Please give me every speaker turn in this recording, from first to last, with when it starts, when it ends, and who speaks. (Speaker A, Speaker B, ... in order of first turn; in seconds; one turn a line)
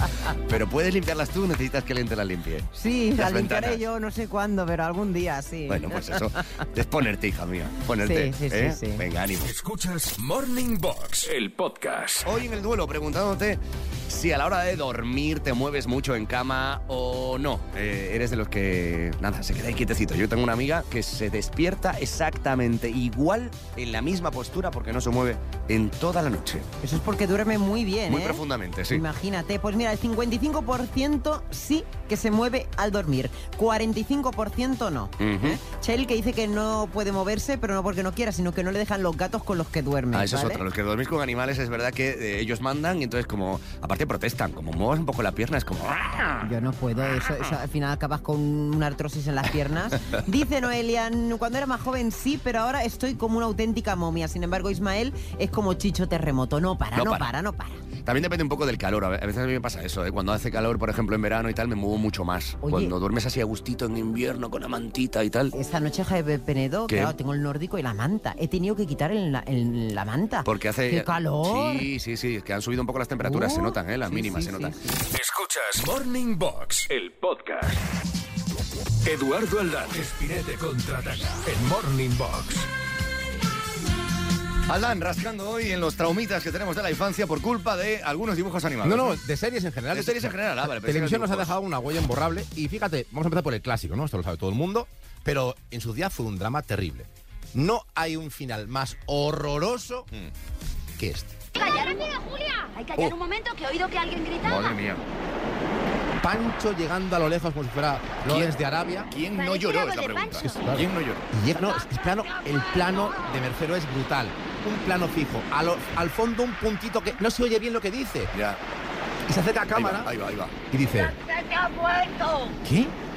Speaker A: 0.5-3.8
Speaker B: 2.7-6.3
Speaker A: 5.7-9.5
Speaker B: 8.1-9.0
Speaker C: 9.4-12.3
Speaker A: 12.2-26.7
Speaker B: 26.8-40.6
Speaker A: 28.1-29.0
Speaker A: 35.2-35.6
Speaker A: 40.1-46.5
Speaker B: 46.4-57.8
Speaker A: 57.0-57.3
Speaker A: 58.0-65.5
Speaker B: 62.6-62.9
Speaker B: 65.5-71.9
Speaker A: 66.9-67.1
Speaker A: 70.5-74.8
Speaker B: 73.2-74.8
Speaker C: 75.1-77.8
Speaker C: 79.0-82.7
Speaker A: 84.7-89.2
Speaker D: 88.8-100.1
Speaker A: 89.9-91.6
Speaker D: 101.0-101.4
Speaker E: 101.5-104.8
Speaker A: 104.4-105.0
Speaker D: 106.2-109.1
Speaker A: 108.2-108.5
Speaker A: 109.1-111.3
Speaker E: 109.3-110.6
Speaker D: 110.3-118.3
Speaker E: 111.8-113.3
Speaker A: 118.3-118.6
Speaker D: 119.3-120.1
Speaker A: 119.7-120.5
Speaker D: 120.7-121.1
Speaker E: 120.8-122.5
Speaker D: 122.6-122.9